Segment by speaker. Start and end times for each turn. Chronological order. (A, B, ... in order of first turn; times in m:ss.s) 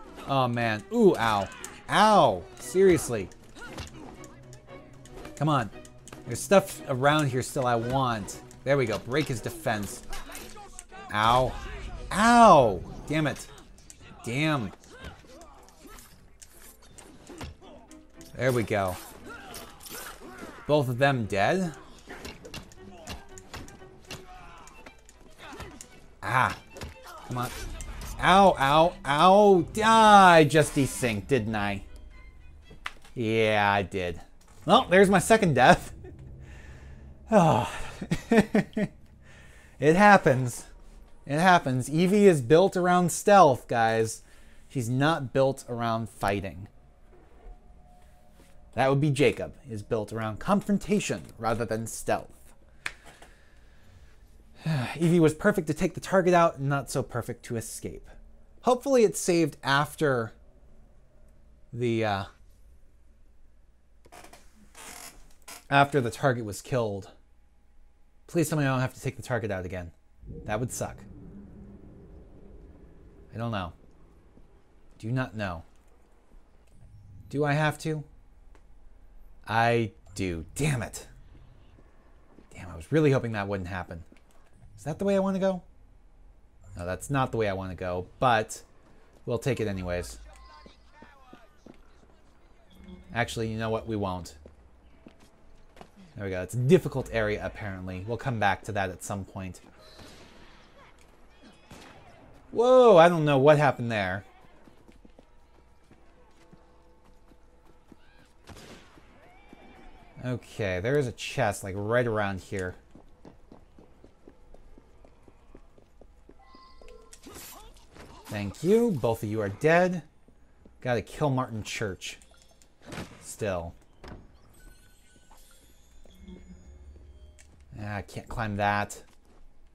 0:00.2-0:03.3 A
0:05.4-0:05.7 A
0:06.2-0:10.0 A
0:11.1-0:13.5 A
0:14.2-0:14.8 A
0:18.3-0:19.0 A
0:20.6-0:21.8 A
0:26.2-0:26.6 A
0:27.3-0:27.6 A
0:28.2-0:31.8 A
0:33.1-0:36.0 A
0:37.3-0:38.9 A
0:39.8-0:40.7 A
0:41.2-0:46.7 A
0:48.7-0:52.5 A
0:54.6-1:00.3 A
1:01.7-1:02.3 A
1:05.7-1:07.1 A
1:08.3-1:09.9 A
1:10.4-1:11.1 A
1:13.3-1:13.7 A
1:15.0-1:15.6 A
1:17.3-1:18.1 A
1:19.4-1:21.1 A
1:22.5-1:24.0 A
1:24.8-1:25.6 A
1:26.8-1:28.6 A
1:29.2-1:30.2 A
1:33.1-1:34.4 A
1:36.2-1:39.6 A
1:42.5-1:44.2 A
1:50.2-1:52.8 A
1:58.3-2:00.0 A
2:00.8-2:02.2 A
2:03.2-2:03.7 A
2:07.7-2:09.0 A